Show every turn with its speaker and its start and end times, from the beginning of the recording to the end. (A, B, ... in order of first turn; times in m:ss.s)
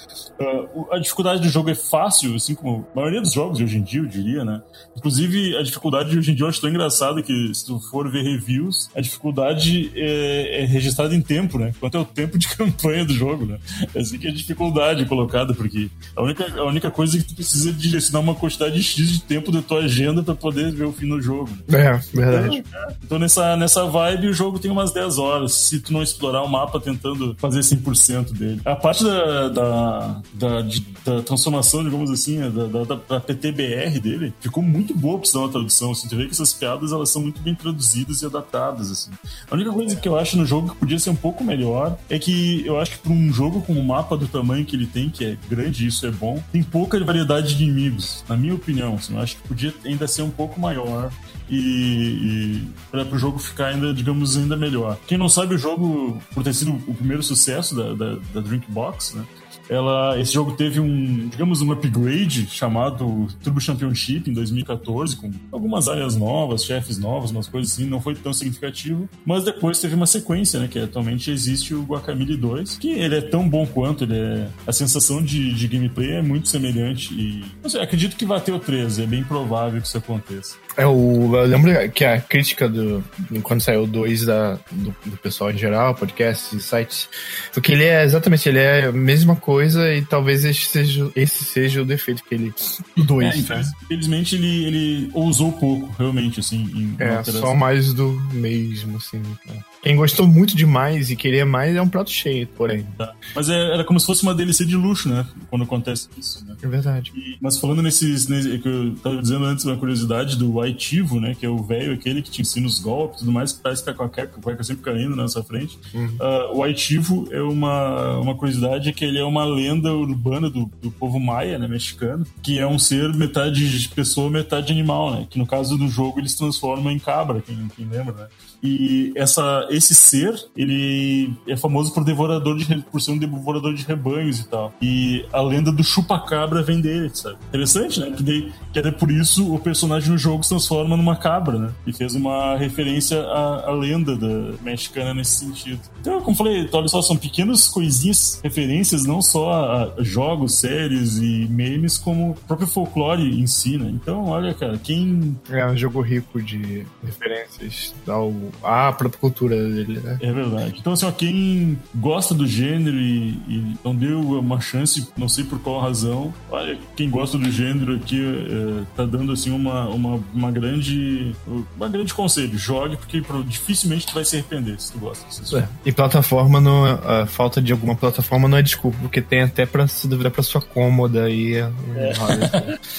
0:00.4-0:21.7 A
0:21.7-0:22.6 B
0:22.3-1:20.6 A
0:39.8-0:40.1 B
1:20.8-1:33.7 B
1:33.0-1:37.6 A
1:37.0-1:43.0 B
1:43.0-1:46.6 A
1:46.6-1:47.1 B
1:47.1-2:35.4 A
1:55.9-1:56.2 B
2:35.5-2:40.2 B
2:40.2-2:55.7 A
2:55.5-3:02.8 B
3:02.0-3:02.7 A